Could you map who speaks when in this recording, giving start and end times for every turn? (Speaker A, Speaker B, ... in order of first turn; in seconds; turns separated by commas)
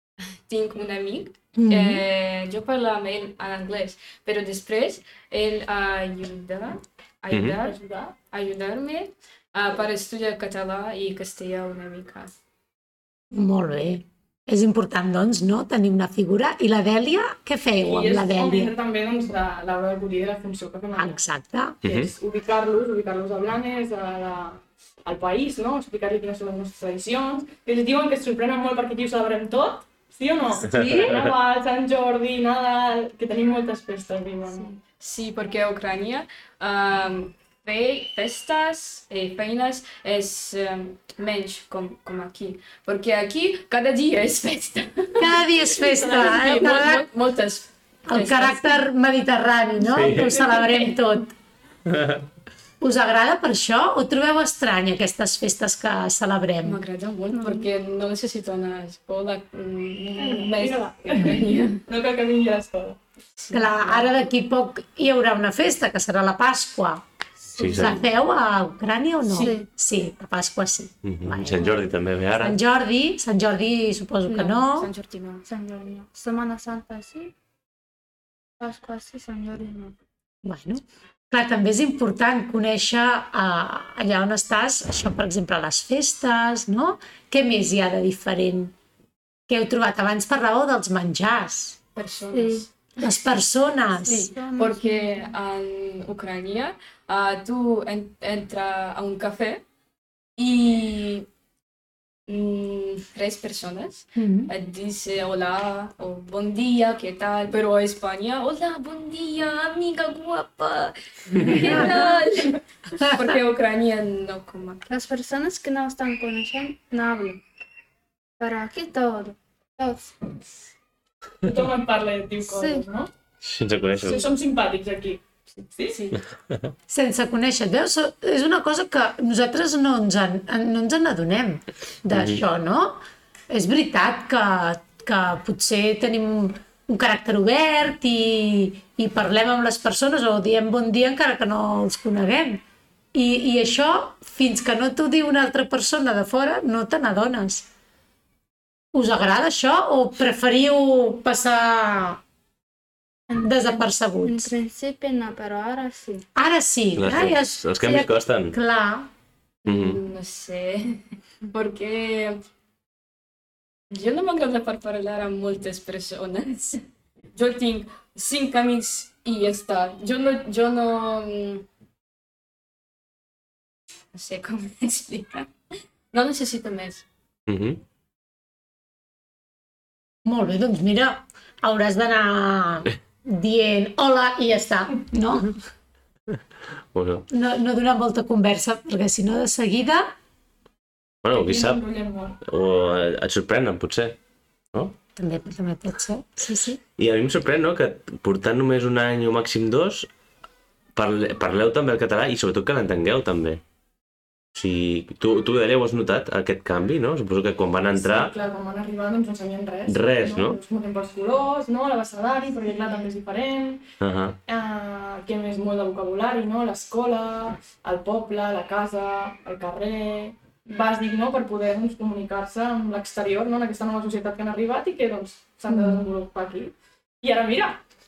Speaker A: 0.2-7.8, Speaker B: 1.6-2.0, Speaker C: 7.6-8.1, Speaker A: 8.3-12.4, Speaker B: 13.3-18.7, Speaker C: 17.8-21.2, Speaker B: 20.9-21.8, Speaker D: 21.8-22.1, Speaker C: 21.8-34.7, Speaker B: 30.6-31.1, Speaker D: 30.7-31.3, Speaker A: 35.0-48.8, Speaker B: 45.2-47.1, Speaker B: 48.1-51.3, Speaker D: 49.9-50.3, Speaker D: 51.9-52.2, Speaker B: 52.8-56.8, Speaker A: 56.6-61.8, Speaker E: 57.3-57.7, Speaker C: 60.2-63.0, Speaker A: 63.4-64.1, Speaker B: 63.5-67.0, Speaker D: 67.6-68.0, Speaker A: 67.6-67.9, Speaker B: 67.7-71.8, Speaker A: 69.3-69.6, Speaker E: 69.3-69.7, Speaker D: 71.0-72.6, Speaker B: 72.4-74.9, Speaker A: 74.2-75.5, Speaker E: 75.5-77.3, Speaker E: 78.6-79.9, Speaker B: 80.4-88.7, Speaker B: 89.5-91.8, Speaker A: 91.9-92.7, Speaker E: 92.3-92.6, Speaker B: 93.0-94.3, Speaker E: 93.9-95.3, Speaker A: 94.0-99.6, Speaker A: 100.4-101.3, Speaker A: 102.3-114.9, Speaker B: 104.2-104.5, Speaker B: 111.3-112.2, Speaker B: 112.9-113.4, Speaker E: 114.9-117.4, Speaker E: 118.4-120.4, Speaker C: 121.4-123.1, Speaker E: 122.4-122.8, Speaker D: 123.4-124.2, Speaker C: 124.0-125.2, Speaker C: 125.8-126.0, Speaker A: 125.9-126.2, Speaker B: 126.9-142.6, Speaker D: 132.1-132.4, Speaker B: 143.1-147.7, Speaker B: 148.9-152.2, Speaker E: 153.3-156.2, Speaker B: 153.4-154.5, Speaker B: 156.4-159.1, Speaker D: 156.9-158.6, Speaker A: 159.6-162.4, Speaker D: 159.7-160.0, Speaker A: 163.9-171.7, Speaker A: 174.1-175.5, Speaker A: 176.1-177.1, Speaker D: 177.5-177.8, Speaker B: 180.2-185.6, Speaker D: 186.9-187.2, Speaker B: 187.3-190.1, Speaker D: 191.2-191.8, Speaker C: 191.3-192.4, Speaker D: 192.4-194.2, Speaker B: 195.2-196.8, Speaker D: 197.0-200.1, Speaker D: 200.9-203.6, Speaker D: 204.6-208.3, Speaker C: 207.9-213.8, Speaker D: 209.9-210.6, Speaker D: 214.0-214.4, Speaker C: 214.5-227.8, Speaker B: 225.7-226.1